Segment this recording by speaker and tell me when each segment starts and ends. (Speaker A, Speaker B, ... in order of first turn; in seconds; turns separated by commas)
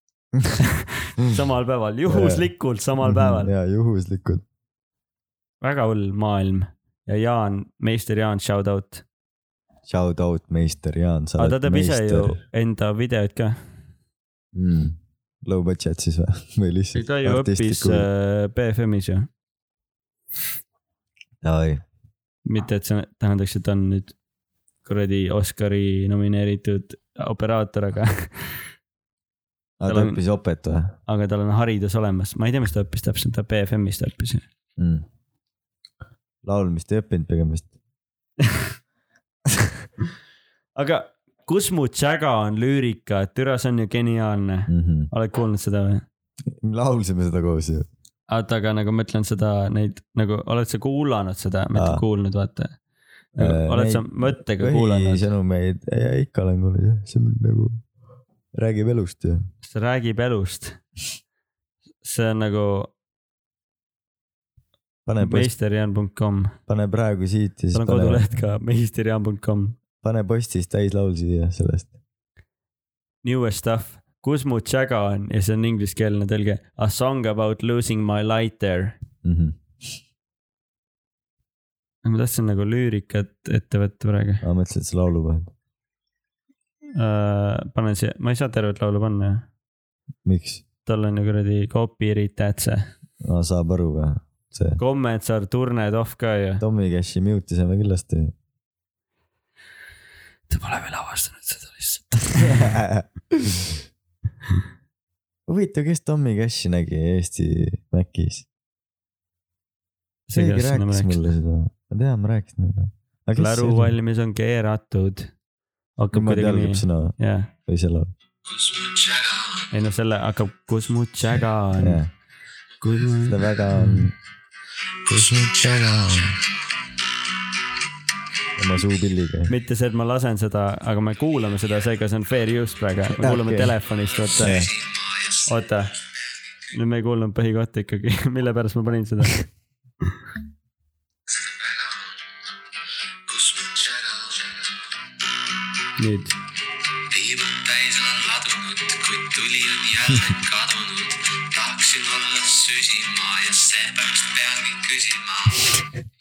Speaker A: 0.6-3.5, Speaker B: 2.1-2.5, Speaker B: 3.0-4.4, Speaker A: 5.6-9.0, Speaker B: 9.8-12.4, Speaker A: 11.4-13.6, Speaker B: 14.5-18.1, Speaker A: 16.9-19.3, Speaker B: 21.4-21.8, Speaker A: 22.4-24.1, Speaker A: 24.8-28.6, Speaker B: 29.8-31.0, Speaker A: 29.9-30.2, Speaker A: 31.1-34.4, Speaker B: 34.8-35.0, Speaker B: 36.4-37.7, Speaker A: 40.8-46.0, Speaker B: 44.7-45.1, Speaker B: 46.6-47.9, Speaker A: 48.3-52.8, Speaker B: 51.7-52.0, Speaker B: 53.4-57.8, Speaker A: 53.4-55.3, Speaker B: 58.6-59.4, Speaker A: 59.6-60.8, Speaker A: 62.0-62.9, Speaker B: 65.0-65.5, Speaker A: 65.2-66.5, Speaker B: 66.7-68.3, Speaker A: 67.7-69.8, Speaker B: 70.0-71.9, Speaker A: 73.2-79.0, Speaker B: 79.2-79.8, Speaker A: 82.0-84.4, Speaker B: 84.4-85.5, Speaker A: 86.9-89.5, Speaker B: 90.2-90.6, Speaker A: 90.8-92.9, Speaker B: 93.2-94.8, Speaker A: 94.8-96.6, Speaker B: 96.6-98.3, Speaker A: 100.5-102.8, Speaker B: 102.4-103.7, Speaker B: 105.5-108.5, Speaker A: 110.3-111.3, Speaker B: 110.3-113.9, Speaker A: 113.4-115.3, Speaker A: 116.0-117.5, Speaker B: 116.1-117.1, Speaker B: 117.7-118.1, Speaker C: 118.4-119.7, Speaker A: 119.7-122.0, Speaker B: 121.8-122.1, Speaker A: 122.8-124.1, Speaker B: 123.2-124.1, Speaker C: 125.1-126.5, Speaker B: 125.1-126.3, Speaker B: 128.6-129.5, Speaker A: 129.5-134.6, Speaker B: 133.2-133.8, Speaker C: 134.2-135.6, Speaker B: 134.4-134.7, Speaker A: 135.5-135.9, Speaker A: 136.7-139.4, Speaker C: 141.3-142.2, Speaker C: 143.2-144.9, Speaker A: 146.0-146.4, Speaker C: 147.1-155.8